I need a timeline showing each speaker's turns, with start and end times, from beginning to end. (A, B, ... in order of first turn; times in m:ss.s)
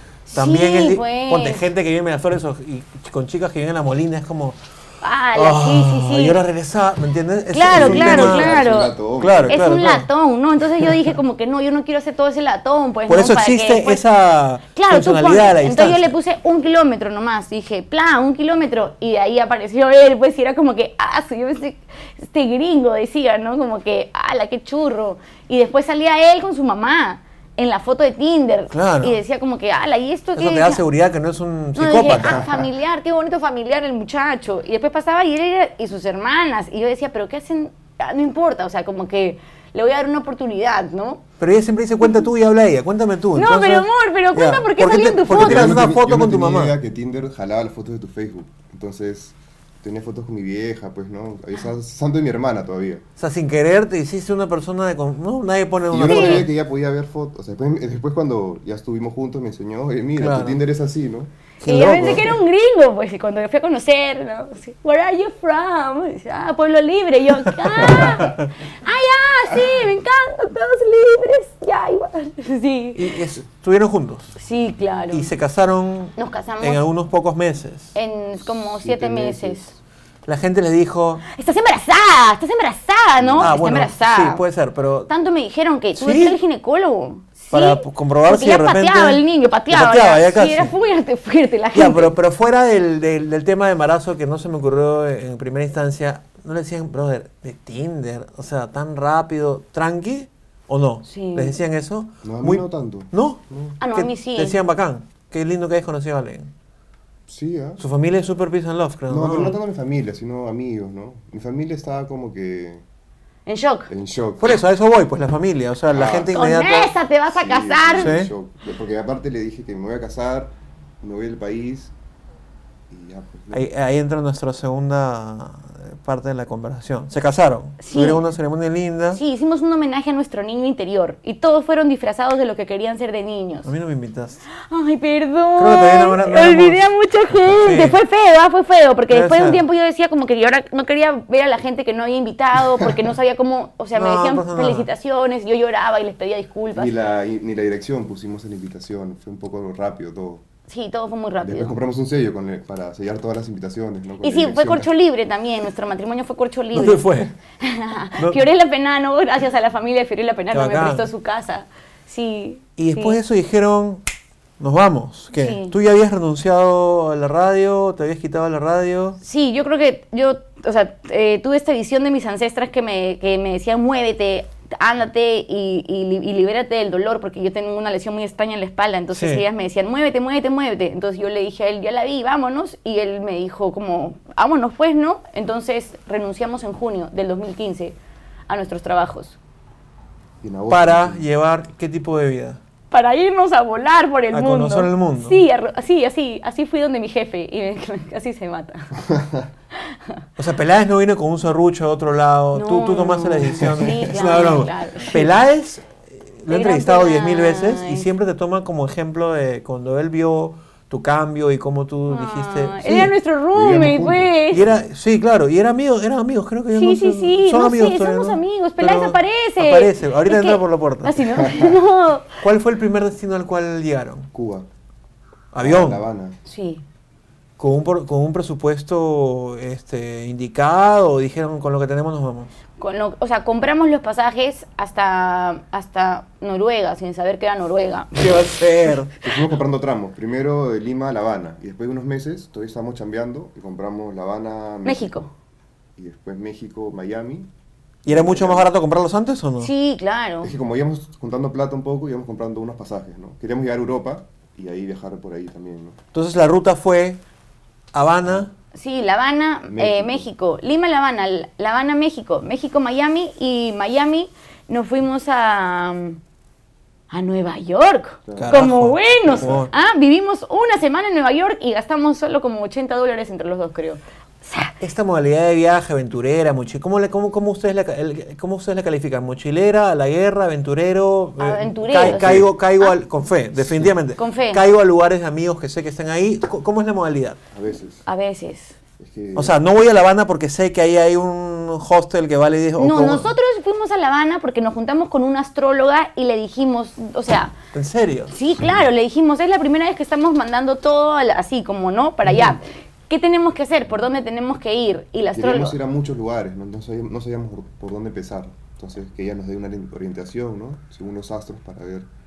0:00.3-0:01.6 A
0:00.3-0:04.6 B
0:05.0-0:06.4 A
0:05.4-0:08.6 B
0:07.5-0:08.9 A
0:07.7-0:09.6 C
0:09.2-0:10.1 B
0:09.5-0:14.0 A
0:13.1-0:16.1 B
0:14.7-0:30.8 A
0:28.7-0:29.2 B
0:30.4-0:32.5 B
0:31.8-0:41.2 A
0:41.4-0:46.7 B
0:43.4-0:45.8 A
0:45.3-0:53.0 C
0:53.2-0:56.5 B
0:55.9-1:01.3 C
0:56.0-0:56.4 A
1:00.2-1:00.6 B
1:01.6-1:02.4 B
1:01.6-1:13.1 A
1:07.7-1:08.5 B
1:13.0-1:14.4 B
1:14.4-1:15.3 A
1:15.1-1:17.9 B
1:16.2-1:16.8 A
1:17.9-1:19.7 A
1:18.4-1:19.7 C
1:20.2-1:21.2 B
1:21.3-1:24.4 A
1:23.2-1:23.6 C
1:23.4-1:25.1 B
1:25.1-1:32.1 A
1:26.0-1:26.4 B
1:27.5-1:30.7 B
1:31.7-1:46.5 B
1:41.0-1:41.6 A
1:42.2-1:43.8 C
1:43.8-1:44.6 A
1:47.3-1:47.8 C
1:47.8-1:49.6 B
1:49.1-1:52.8 C
1:53.4-1:53.9 A
1:53.9-1:54.6 C
1:54.4-1:56.9 B
1:55.9-1:56.4 C
1:56.3-1:58.1 A
1:57.3-2:01.9 C
1:58.0-1:58.3 B
2:02.9-2:03.7 C
2:03.5-2:09.2 B
2:07.8-2:08.2 A
2:09.1-2:13.7 A
2:13.6-2:14.4 B
2:14.6-2:26.9 A
2:15.6-2:16.9 B
2:17.5-2:18.0 B
2:19.1-2:19.6 B
2:23.9-2:24.9 B
2:26.8-2:30.4 C
2:30.7-2:31.8 A
2:31.4-2:34.9 C
2:34.2-2:43.2 A
2:36.7-2:37.3 B
2:40.5-2:41.0 B
2:42.8-2:44.0 B
2:44.6-2:49.2 B
2:45.4-2:45.7 A
2:49.2-3:08.0 A
2:59.1-2:59.4 B
3:08.5-3:09.4 A
3:10.4-3:11.3 C
3:10.7-3:12.6 B
3:12.9-3:19.0 A
3:14.3-3:15.4 B
3:19.0-3:19.5 C
3:20.4-3:33.1 B
3:22.5-3:25.3 A
3:26.5-3:28.1 A
3:32.1-3:34.6 A
3:33.5-3:34.7 C
3:34.5-3:41.5 B
3:36.7-3:42.4 A
3:41.4-3:41.7 C
3:42.4-3:44.3 B
3:44.3-3:44.7 C
3:45.5-3:46.0 B
3:45.6-3:46.4 C
3:46.4-3:46.8 A
3:47.6-3:52.5 B
3:52.8-3:58.4 A
3:58.2-3:59.1 B
3:59.2-4:05.3 C
4:04.8-4:05.3 A
4:06.0-4:07.5 C
4:08.0-4:08.7 C
4:08.0-4:09.7 B
4:09.6-4:10.5 A
4:10.4-4:16.0 C
4:16.1-4:17.2 B
4:17.9-4:18.5 B
4:18.7-4:26.2 A
4:19.7-4:20.3 C
4:27.1-4:34.7 A
4:28.3-4:28.6 C
4:28.4-4:29.7 B
4:29.3-4:29.7 C
4:34.8-4:47.4 B
4:41.4-4:43.0 A
4:42.0-4:42.5 C
4:44.2-4:44.6 A
4:47.5-4:48.0 C
4:48.0-4:48.8 A
4:49.0-4:49.6 C
4:49.4-4:53.3 B
4:52.8-4:57.5 A
4:57.7-4:58.3 B
4:58.3-5:05.8 A
5:05.3-5:12.1 C